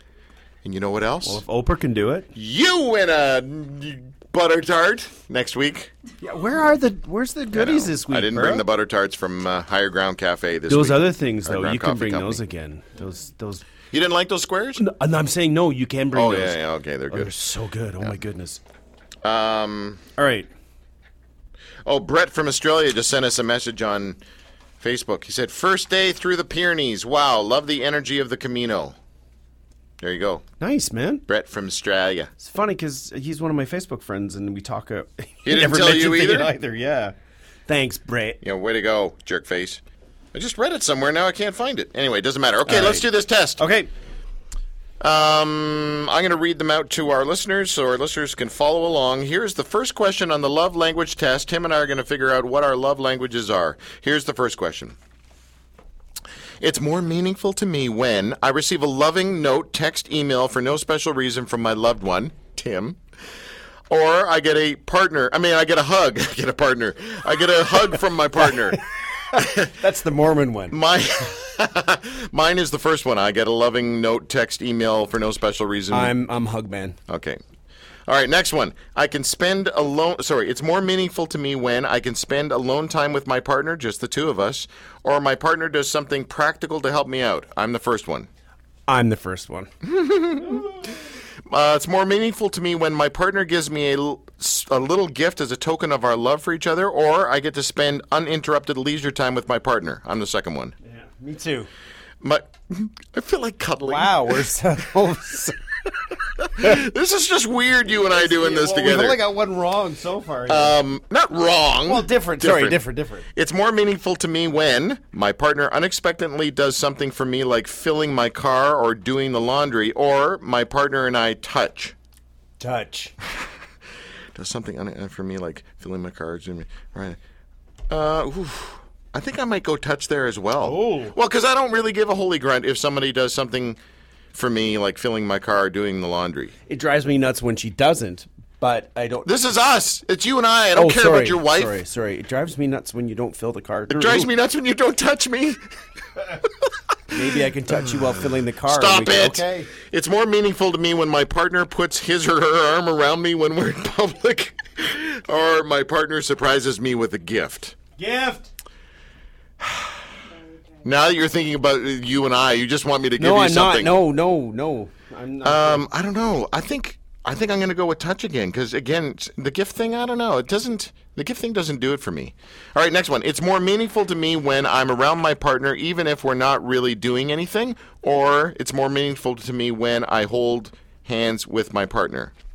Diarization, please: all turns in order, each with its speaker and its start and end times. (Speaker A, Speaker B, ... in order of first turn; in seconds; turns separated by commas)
Speaker A: 0.6-1.4, Speaker B: 1.2-2.3, Speaker A: 2.3-5.9, Speaker B: 6.2-8.7, Speaker A: 7.5-12.4, Speaker B: 10.7-13.6, Speaker A: 13.9-14.8, Speaker B: 14.8-18.6, Speaker A: 16.1-17.3, Speaker A: 19.2-20.0, Speaker B: 20.2-20.5, Speaker A: 21.9-24.2, Speaker A: 24.8-29.0, Speaker A: 30.0-30.4, Speaker B: 30.6-31.2, Speaker A: 31.3-32.3, Speaker B: 32.4-37.1, Speaker A: 35.5-36.5, Speaker B: 37.7-38.4, Speaker A: 38.4-39.8, Speaker A: 40.3-43.6, Speaker B: 42.7-43.1, Speaker B: 43.6-43.9, Speaker A: 45.0-55.0, Speaker A: 56.6-63.0, Speaker A: 63.9-68.8, Speaker B: 68.4-68.8, Speaker B: 69.3-70.8, Speaker A: 69.3-69.7, Speaker A: 70.7-76.2, Speaker B: 75.9-77.0, Speaker A: 77.1-77.4, Speaker A: 78.1-88.3, Speaker B: 88.9-89.7, Speaker A: 89.8-100.7, Speaker B: 100.9-101.7, Speaker A: 102.2-104.5, Speaker B: 103.8-105.6, Speaker A: 106.4-109.2, Speaker B: 107.9-110.8, Speaker A: 110.5-112.8, Speaker B: 111.9-113.3, Speaker A: 113.3-122.0, Speaker B: 122.6-123.1, Speaker A: 124.3-127.2, Speaker A: 127.9-133.8, Speaker B: 130.6-131.2, Speaker A: 134.3-136.5, Speaker B: 136.7-139.3, Speaker A: 139.2-141.8, Speaker B: 140.8-144.3, Speaker A: 143.9-145.6, Speaker A: 146.4-147.1, Speaker B: 147.1-149.7, Speaker A: 147.7-157.8, Speaker B: 158.0-158.5, Speaker A: 159.6-160.0, Speaker A: 160.8-164.0, Speaker B: 163.2-165.9, Speaker A: 165.4-182.3